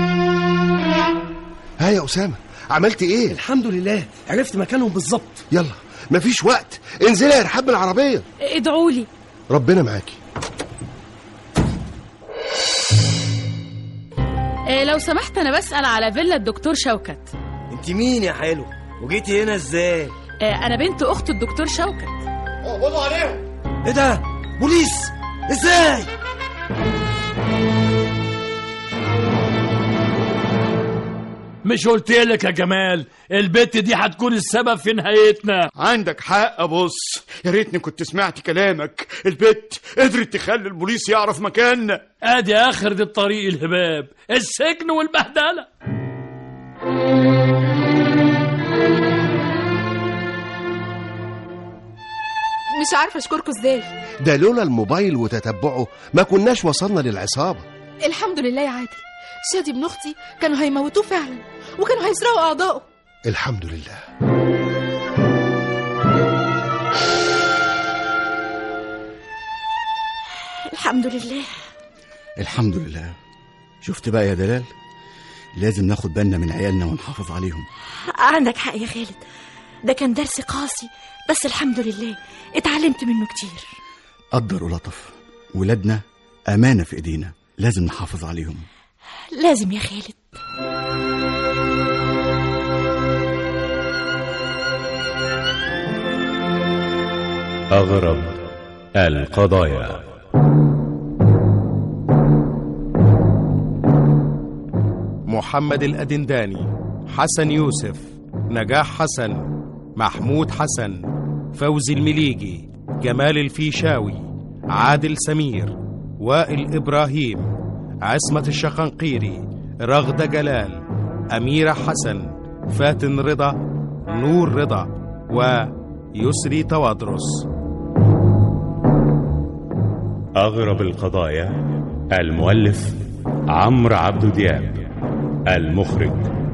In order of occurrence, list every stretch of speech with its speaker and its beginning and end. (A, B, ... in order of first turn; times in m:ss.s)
0:01.8-0:03.4 A
0:03.3-0:05.4 B
0:05.5-0:08.2 A
0:08.4-0:09.1 C
0:09.5-0:10.2 A
0:14.7-0:17.3 C
0:17.7-0:20.2 D
0:20.4-0:22.2 C
0:23.8-0:26.1 D
0:31.6-0:35.7 E
0:35.8-0:42.0 F
0:42.2-0:45.7 E
0:52.7-0:53.9 G
0:54.2-0:57.7 A
0:58.0-1:02.9 G
1:03.3-1:04.0 A
1:10.7-1:11.5 H
1:12.4-1:13.2 I
1:13.8-1:14.7 I
1:15.6-1:17.7 I
1:18.1-1:19.2 H
1:19.8-1:23.8 H
1:24.4-1:28.7 I
1:29.4-1:30.2 H
1:37.7-1:38.4 J
1:39.0-1:40.1 J
1:45.3-1:57.5 K
1:58.1-2:03.6 K
2:04.1-2:07.4 K
2:10.4-2:11.6 J
2:12.1-2:13.0 J
2:13.5-2:14.9 J
2:15.5-2:16.3 J